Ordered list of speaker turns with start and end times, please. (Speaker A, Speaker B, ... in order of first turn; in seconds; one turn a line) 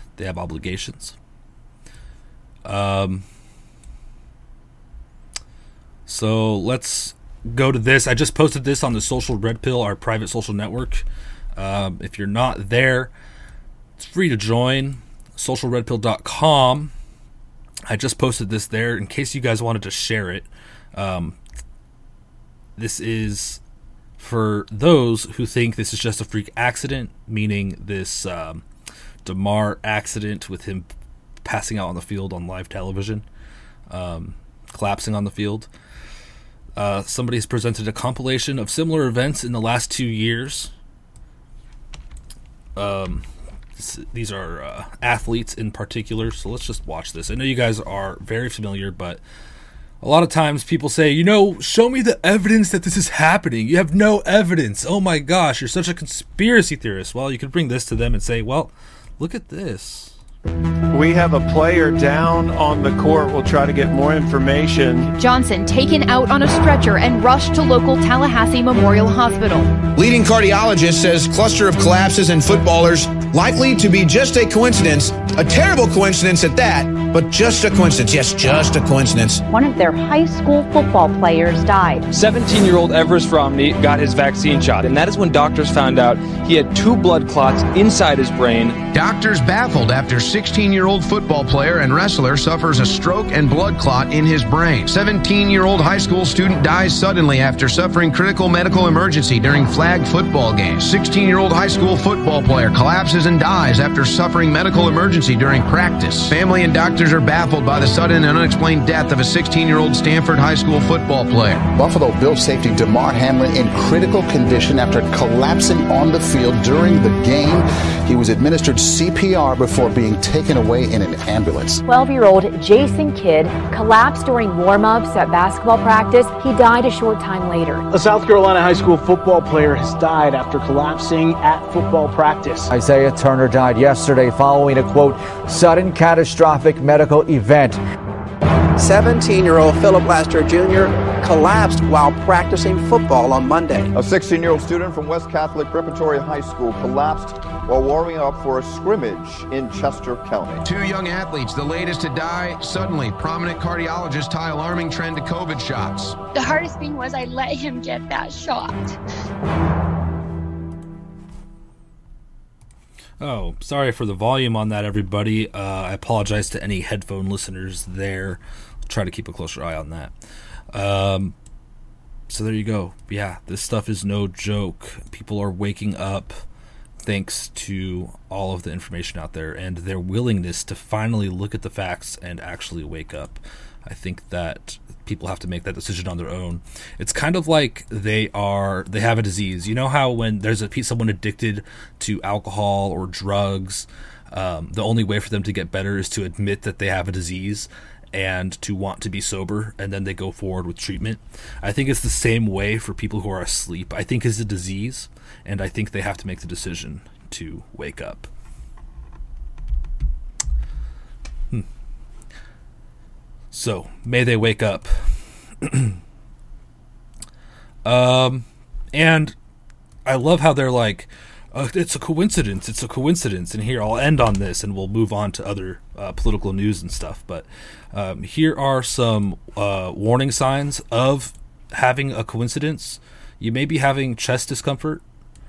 Speaker A: 0.2-1.1
Speaker A: 2.6-3.2
Speaker A: 6.1-13.1
Speaker A: 14.0-16.9
Speaker A: 17.9-21.4
Speaker A: 22.8-23.6
Speaker A: 24.2-28.6
Speaker A: 29.2-30.9
Speaker A: 31.4-33.2
Speaker A: 33.9-35.7
Speaker A: 36.8-40.7
Speaker A: 42.8-43.2
Speaker A: 43.8-49.2
Speaker A: 50.0-60.2
Speaker B: 60.9-65.1
Speaker C: 65.1-69.7
Speaker D: 69.9-79.4
Speaker E: 79.5-82.1
Speaker F: 82.1-88.8
Speaker D: 88.9-111.7
Speaker G: 111.7-121.8
Speaker E: 121.8-127.8
Speaker H: 127.9-132.6
Speaker I: 132.7-137.8
Speaker J: 138.8-143.9
Speaker K: 143.9-150.6
Speaker D: 150.6-156.2
Speaker L: 156.3-159.0
Speaker A: 163.2-170.1
Speaker A: 170.7-171.3
Speaker A: 172.3-176.4
Speaker A: 177.0-208.3
Speaker A: 213.5-216.0
Speaker A: 217.8-219.3
Speaker A: 220.0-235.0